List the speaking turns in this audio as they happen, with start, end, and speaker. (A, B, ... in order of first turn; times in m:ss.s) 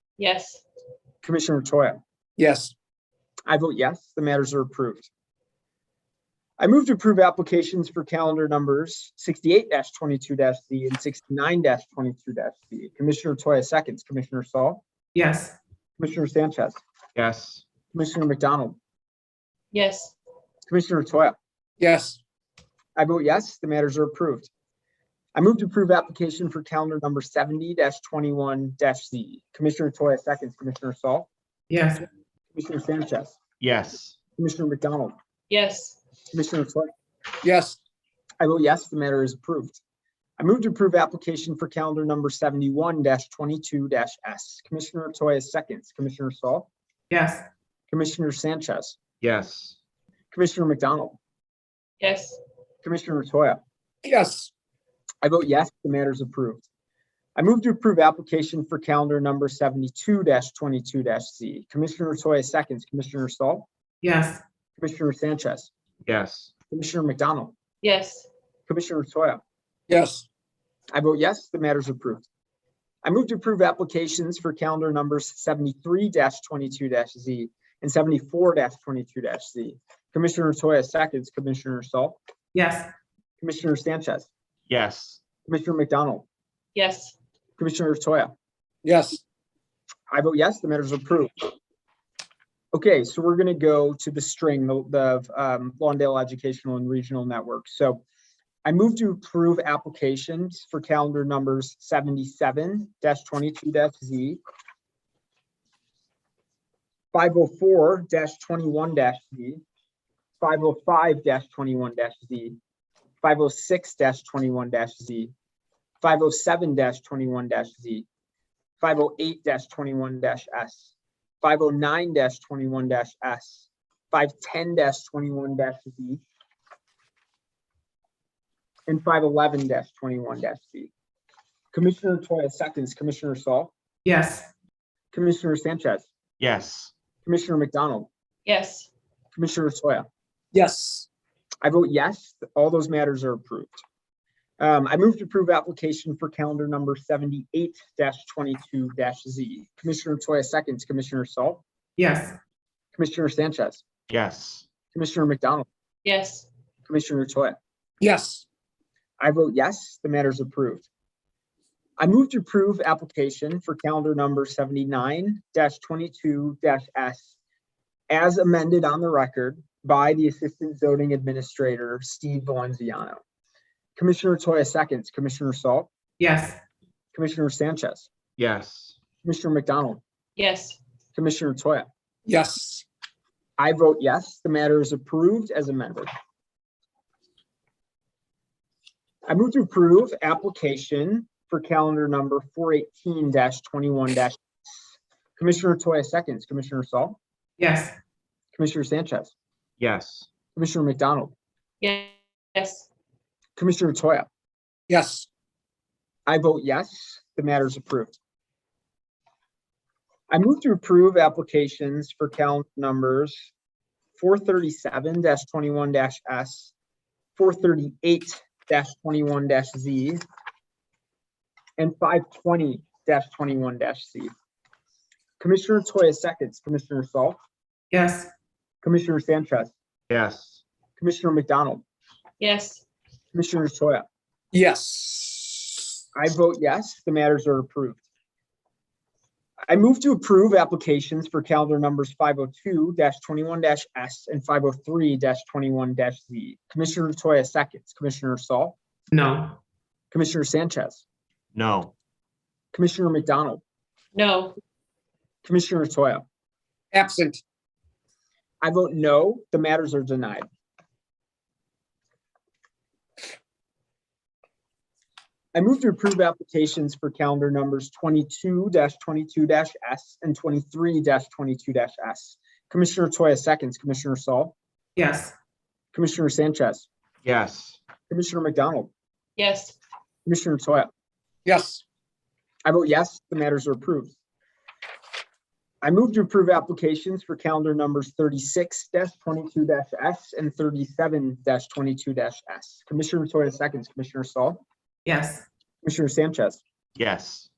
0:00.2-0:00.6 A
0:01.2-0:02.0 B
0:02.4-0:02.7 C
0:03.5-0:05.1 B
0:06.6-0:14.8 B
0:15.1-0:15.6 D
0:16.0-0:16.8 B
0:17.2-0:17.6 E
0:17.9-0:18.8 B
0:19.7-0:20.1 A
0:20.7-0:21.4 B
0:21.8-0:22.2 C
0:23.0-0:24.5 B
0:25.4-0:31.3 B
0:31.7-0:32.0 D
0:32.5-0:33.4 B
0:33.6-0:34.2 E
0:34.4-0:35.1 B
0:35.5-0:36.0 A
0:36.3-0:36.9 B
0:37.4-0:37.8 C
0:38.4-0:39.8 B
0:40.4-0:46.7 B
0:47.1-0:47.4 D
0:47.9-0:49.0 B
0:49.2-0:49.8 E
0:50.3-0:51.2 B
0:52.0-0:52.4 A
0:52.8-0:53.6 B
0:54.0-0:54.5 C
0:55.2-0:56.6 B
0:57.4-1:03.7 B
1:04.0-1:04.4 D
1:04.8-1:05.7 B
1:06.1-1:06.5 E
1:06.7-1:07.6 B
1:07.8-1:08.3 A
1:08.7-1:09.4 B
1:09.9-1:10.2 C
1:10.9-1:12.3 B
1:13.0-1:22.2 B
1:22.6-1:22.9 D
1:23.4-1:24.3 B
1:24.7-1:25.2 E
1:25.4-1:26.3 B
1:26.8-1:27.2 A
1:27.6-1:28.3 B
1:28.8-1:29.2 C
1:30.1-1:31.3 B
1:32.7-1:38.0 B
1:38.6-1:44.4 B
1:47.1-1:49.6 B
1:50.4-1:52.6 B
1:53.2-1:55.3 B
1:56.0-1:58.1 B
1:58.8-2:06.2 B
2:08.9-2:10.9 B
2:11.7-2:13.7 B
2:14.1-2:14.5 D
2:15.1-2:16.1 B
2:16.4-2:16.9 E
2:17.2-2:18.1 B
2:18.5-2:18.9 A
2:19.3-2:20.1 B
2:20.5-2:21.1 C
2:21.6-2:23.8 B
2:24.6-2:31.6 B
2:32.0-2:32.4 D
2:32.9-2:33.8 B
2:34.1-2:34.6 E
2:34.9-2:35.7 B
2:36.0-2:36.5 A
2:36.9-2:37.6 B
2:38.0-2:38.4 C
2:39.2-2:40.9 B
2:42.0-2:47.3 B
2:48.1-2:53.2 B
2:54.0-2:55.9 B
2:56.2-2:56.6 D
2:57.1-2:58.1 B
2:58.4-2:59.0 E
2:59.2-3:00.0 B
3:00.4-3:00.8 A
3:01.2-3:01.9 B
3:02.2-3:02.8 C
3:03.6-3:06.1 B
3:09.3-3:14.4 B
3:15.4-3:17.2 B
3:17.6-3:17.9 D
3:18.5-3:19.3 B
3:19.8-3:20.3 E
3:20.6-3:21.3 B
3:21.8-3:22.9 A
3:23.6-3:24.3 B
3:24.9-3:25.3 C
3:26.3-3:28.2 B
3:30.3-3:33.5 B
3:34.2-3:36.7 B
3:37.4-3:40.2 B
3:41.8-3:44.3 B
3:45.4-3:47.4 B
3:47.9-3:48.3 D
3:48.8-3:49.7 B
3:50.1-3:50.6 E
3:51.0-3:51.8 B
3:52.4-3:52.8 A
3:53.3-3:54.0 B
3:54.5-3:55.8 C
3:56.2-3:58.0 B
3:59.7-4:08.8 B
4:09.1-4:09.6 D
4:10.1-4:11.0 B
4:11.6-4:11.9 E
4:12.7-4:13.6 B
4:14.1-4:14.6 A
4:15.4-4:16.2 B
4:16.9-4:17.4 C
4:18.6-4:20.4 B
4:25.6-4:34.6 B
4:35.0-4:35.3 D
4:35.9-4:36.9 B
4:37.2-4:37.8 E
4:38.1-4:38.9 B
4:39.4-4:39.8 A
4:40.2-4:40.9 B
4:41.4-4:41.8 C
4:42.6-4:44.1 B
4:45.8-4:54.6 B
4:55.1-4:55.4 D
4:55.8-4:56.6 B
4:57.0-4:57.5 E